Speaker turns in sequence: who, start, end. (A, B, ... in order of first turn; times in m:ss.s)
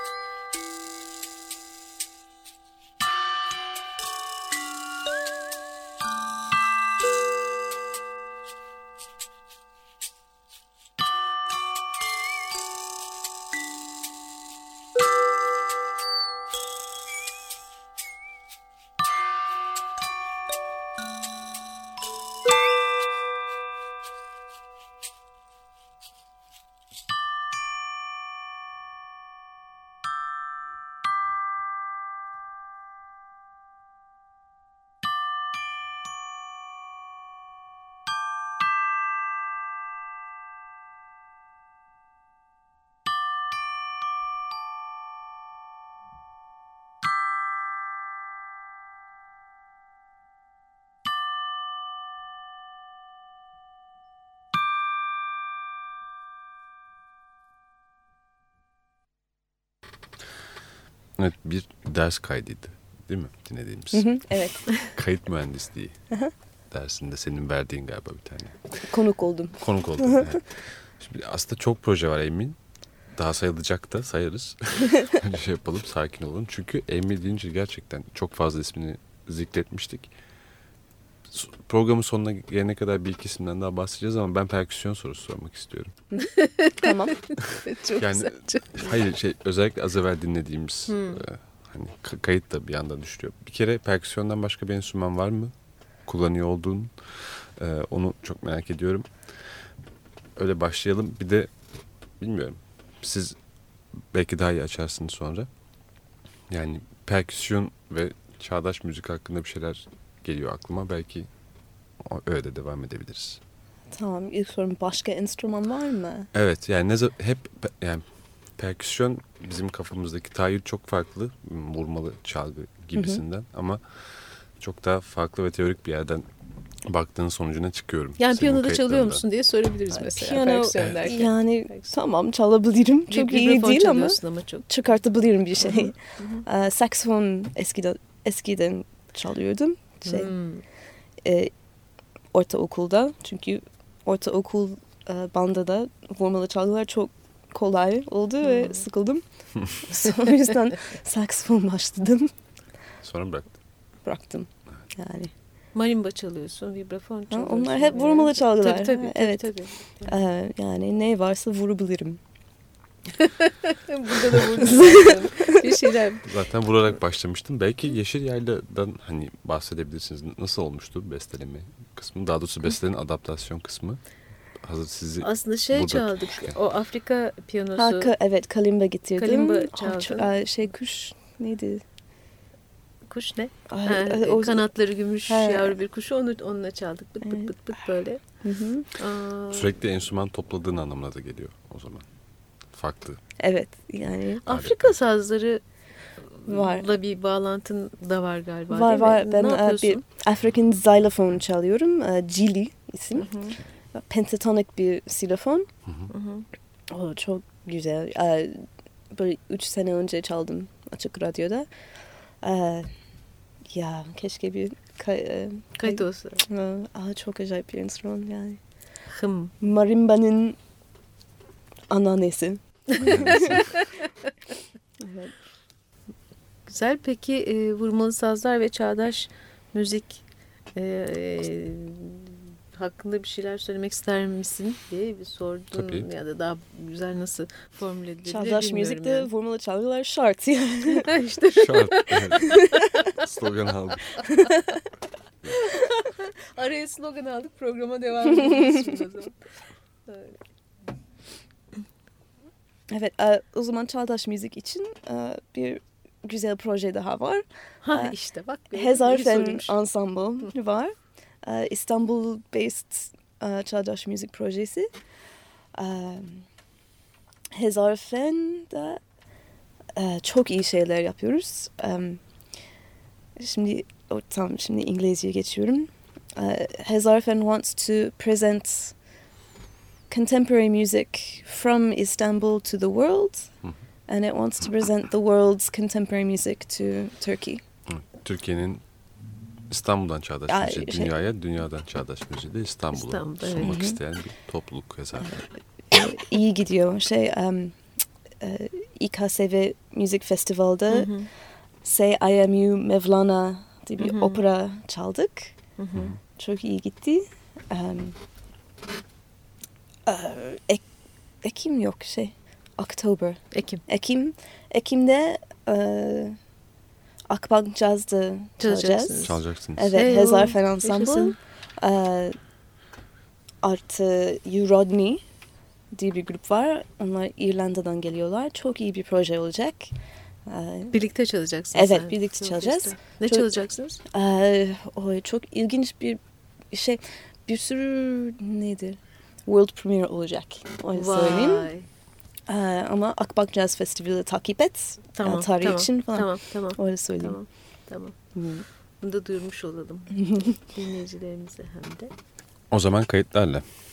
1:01.2-1:04.2 A
1:03.9-1:04.6 B
1:04.7-1:06.0 A
1:06.7-1:08.9 A
1:08.9-1:10.4 B
1:09.6-1:12.6 A
1:13.1-1:20.1 A
1:21.3-1:25.9 A
1:26.2-1:28.9 C
1:26.8-1:27.2 B
1:28.0-1:35.5 A
1:30.9-1:31.2 C
1:36.1-1:39.1 A
1:40.4-1:41.5 A
1:42.2-1:43.4 A
1:44.1-1:45.5 A
1:46.5-1:51.3 A
1:52.0-1:53.4 A
1:53.9-1:56.3 B
1:56.3-1:58.0 A
1:58.6-2:06.3 A
2:03.0-2:03.2 B
2:06.8-2:09.2 A
2:08.2-2:11.9 C
2:10.0-2:20.3 B
2:10.8-2:11.1 A
2:13.1-2:14.7 C
2:15.6-2:16.4 C
2:20.0-2:20.6 C
2:21.2-2:21.5 B
2:22.3-2:29.2 B
2:28.4-2:28.8 C
2:29.8-2:32.3 B
2:33.0-2:33.5 A
2:34.0-2:35.3 B
2:35.7-2:40.2 C
2:37.3-2:39.5 B
2:40.0-2:42.2 B
2:43.2-2:46.3 C
2:44.6-2:45.2 B
2:46.2-2:54.0 A
2:54.6-2:56.6 A
2:55.2-2:58.1 C
2:57.8-3:01.8 B
2:59.2-3:00.3 C
3:03.1-3:08.2 C
3:03.7-3:04.7 B
3:05.3-3:05.8 B
3:07.2-3:07.5 B
3:08.4-3:08.9 B
3:09.0-3:09.7 C
3:09.5-3:12.0 A
3:12.7-3:13.2 A
3:13.4-3:14.4 B
3:14.4-3:15.6 C
3:14.5-3:15.0 A
3:16.3-3:20.0 C
3:16.5-3:16.9 B
3:18.7-3:23.4 B
3:23.2-3:23.6 C
3:23.9-3:25.7 B
3:26.1-3:26.4 C
3:26.9-3:31.7 B
3:32.4-3:32.9 B
3:33.7-3:38.6 B
3:35.8-3:36.4 C
3:39.1-3:39.5 C
3:39.6-3:40.6 B
3:41.9-3:43.6 B
3:43.0-3:43.9 C
3:43.1-3:43.6 A
3:45.0-3:45.4 B
3:46.7-3:50.2 C
3:50.7-3:59.3 C
3:55.7-3:56.1 A
3:58.2-4:01.1 B
4:00.9-4:03.1 C
4:01.5-4:02.6 A
4:03.1-4:04.3 A
4:05.5-4:09.4 C
4:10.1-4:10.3 C
4:12.9-4:18.1 B
4:17.8-4:19.8 C
4:18.7-4:24.9 B
4:25.7-4:26.5 B
4:27.5-4:29.0 B
4:30.0-4:32.2 B
4:33.4-4:39.0 B
4:40.1-4:43.5 B
4:44.1-4:47.6 B
4:47.9-4:48.8 A
4:49.7-4:55.4 A
4:50.5-4:51.1 B
4:52.9-4:53.7 C
4:53.6-4:54.0 B
4:55.2-4:57.8 B
4:58.4-5:01.1 B
5:00.9-5:01.3 C
5:01.8-5:05.6 B
5:04.0-5:04.4 C
5:05.8-5:06.1 C
5:06.2-5:08.2 B
5:10.0-5:10.8 B
5:11.4-5:16.4 B
5:13.5-5:13.8 C
5:17.3-5:22.4 B
5:18.6-5:19.4 C
5:19.2-5:19.9 A
5:19.9-5:21.4 C
5:23.6-5:25.2 B
5:25.9-5:29.9 B
5:30.4-5:31.0 B
5:30.9-5:34.0 C
5:31.7-5:36.2 B
5:36.7-5:41.7 B
5:41.0-5:41.9 C
5:42.5-5:47.4 B
5:45.1-5:48.2 C
5:48.4-5:48.6 B
5:49.0-5:52.1 C
5:50.2-5:50.6 B
5:52.7-5:53.6 A